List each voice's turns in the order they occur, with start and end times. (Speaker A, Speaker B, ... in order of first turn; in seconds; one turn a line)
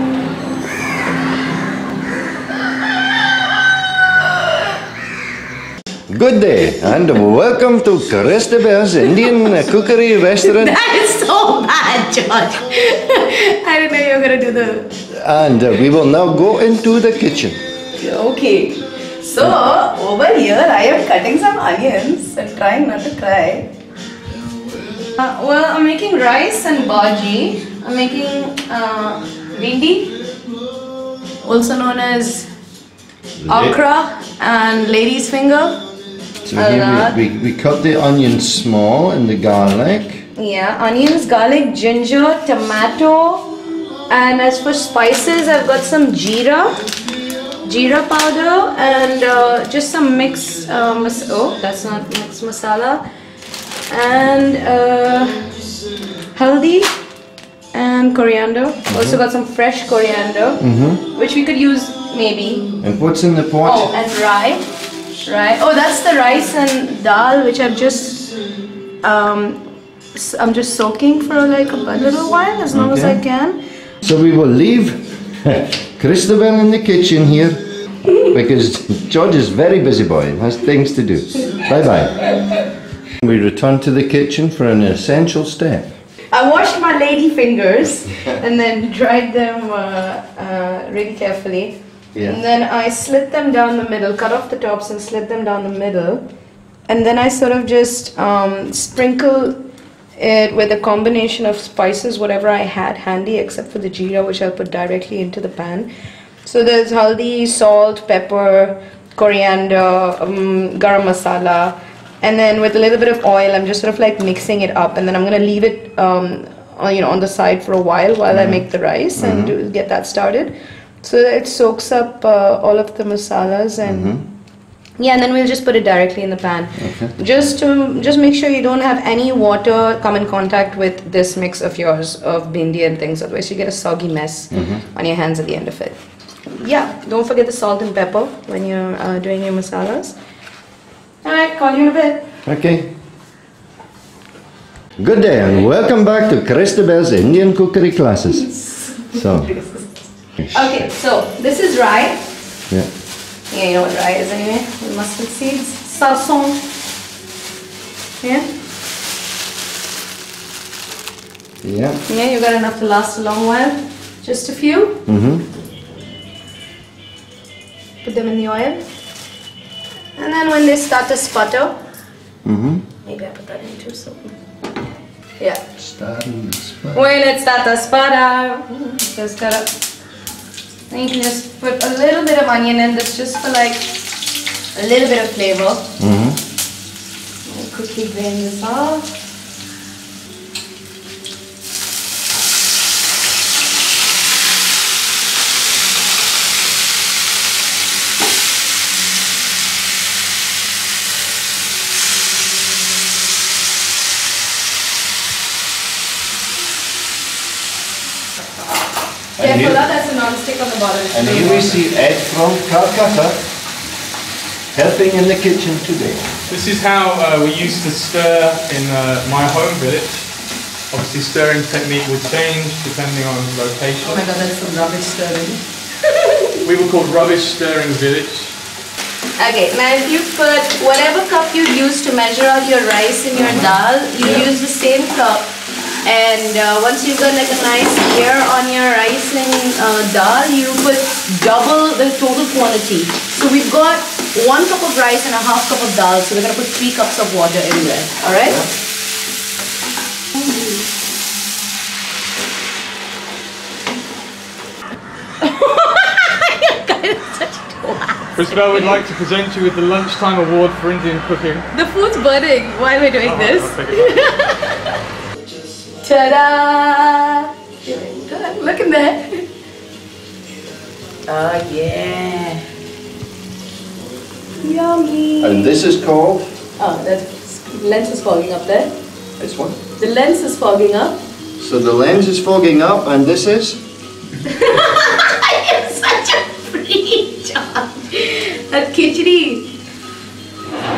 Speaker A: 6.1-10.8
Speaker B: 10.4-14.9
Speaker A: 15.1-17.6
Speaker B: 17.9-23.7
Speaker B: 25.1-30.2
Speaker B: 31.4-32.5
Speaker A: 33.4-33.8
Speaker B: 33.5-35.8
Speaker A: 36.4-40.2
Speaker B: 40.4-43.6
Speaker B: 44.1-46.8
Speaker B: 47.6-53.0
Speaker B: 53.9-55.5
Speaker B: 56.3-56.9
Speaker B: 57.7-62.7
Speaker A: 58.9-59.2
Speaker A: 60.6-61.0
Speaker A: 62.8-63.9
Speaker B: 63.6-64.7
Speaker B: 65.2-68.3
Speaker B: 69.0-69.6
Speaker B: 70.1-73.6
Speaker A: 72.7-73.2
Speaker A: 74.0-77.6
Speaker A: 78.2-82.3
Speaker A: 83.2-85.9
Speaker B: 86.3-96.2
Speaker A: 92.1-92.4
Speaker B: 96.9-99.6
Speaker B: 100.2-105.9
Speaker B: 106.4-124.1
Speaker A: 118.3-118.6
Speaker A: 119.2-119.5
Speaker A: 123.8-124.2
Speaker B: 125.0-136.0
Speaker A: 126.8-127.1
Speaker A: 134.5-134.8
Speaker B: 136.5-140.2
Speaker B: 141.2-142.3
Speaker A: 142.4-142.9
Speaker A: 145.0-149.6
Speaker B: 148.7-152.2
Speaker A: 150.4-150.8
Speaker B: 153.5-156.6
Speaker B: 158.2-158.5
Speaker A: 161.6-162.0
Speaker B: 162.1-165.0
Speaker A: 165.1-165.4
Speaker B: 168.0-168.8
Speaker B: 170.2-171.8
Speaker A: 172.4-172.8
Speaker B: 173.0-174.3
Speaker A: 175.8-177.1
Speaker B: 177.0-179.7
Speaker B: 180.9-183.9
Speaker B: 184.7-185.9
Speaker A: 186.0-186.4
Speaker B: 187.4-189.1
Speaker A: 209.4-209.9
Speaker B: 209.7-211.7
Speaker A: 211.1-213.4
Speaker A: 214.7-216.2
Speaker C: 216.5-220.2
Speaker C: 220.9-224.3
Speaker B: 224.0-225.6
Speaker C: 226.6-228.5
Speaker B: 229.4-248.6
Speaker A: 233.3-234.4
Speaker B: 250.4-250.7
Speaker B: 255.4-259.0
Speaker C: 258.3-261.6
Speaker B: 261.7-264.8
Speaker C: 263.2-264.2
Speaker B: 265.9-269.4
Speaker B: 271.3-272.6
Speaker B: 274.6-275.8
Speaker A: 275.4-276.4
Speaker B: 276.8-278.9
Speaker A: 279.4-279.8
Speaker B: 280.0-281.2
Speaker A: 281.6-283.8
Speaker B: 284.5-289.8